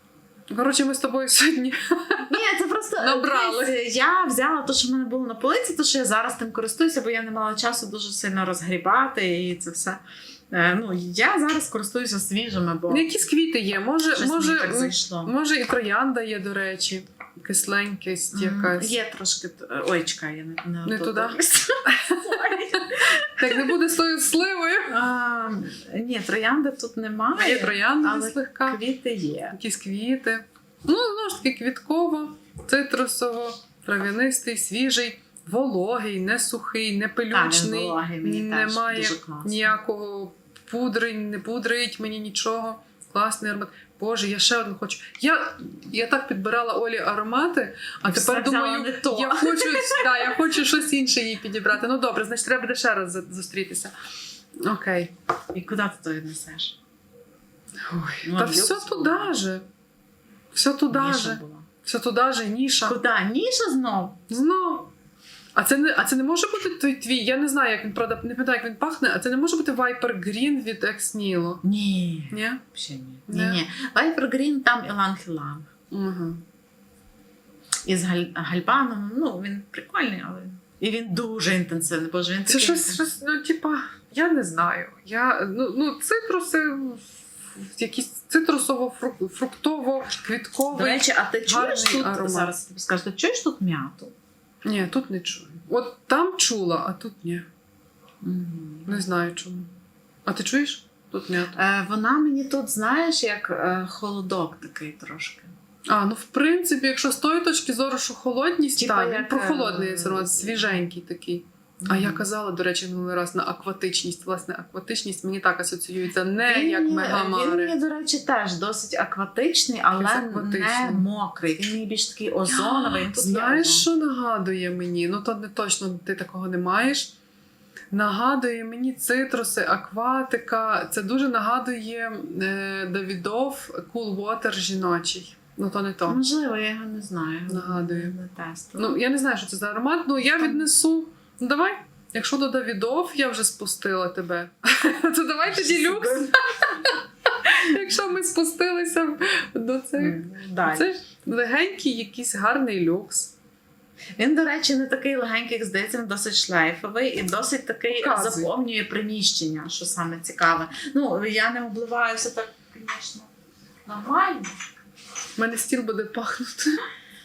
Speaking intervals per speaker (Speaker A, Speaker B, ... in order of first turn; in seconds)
Speaker A: 0.5-2.3, 3.0-3.8, 12.9-18.9, 20.8-24.9, 27.3-28.8, 29.5-53.9, 54.6-55.1, 57.9-59.6, 60.5-63.0, 64.3-64.9, 65.5-71.6, 72.3-72.6, 73.3-73.6, 75.9-76.4, 82.5-92.5, 94.6-97.5, 98.9-99.7, 100.2-101.5, 105.9-117.7, 119.9-121.0, 122.5-127.1, 127.9-136.2, 137.5-138.1, 138.8-153.3, 157.9-158.5, 165.4-166.8
Speaker B: 2.3-13.1, 14.2-15.3, 18.3-23.7, 24.9-29.6, 37.3-39.7, 48.0-50.3, 55.5-56.8, 58.2-59.3, 60.9-61.7, 62.9-64.2, 71.6-75.7, 77.8-83.0, 90.7-94.1, 98.2-99.0, 101.5-105.5, 108.8-110.8, 111.8-112.2, 116.4-123.8, 136.1-139.0, 145.5-146.3, 149.9-150.9, 154.2-163.3, 163.8-164.5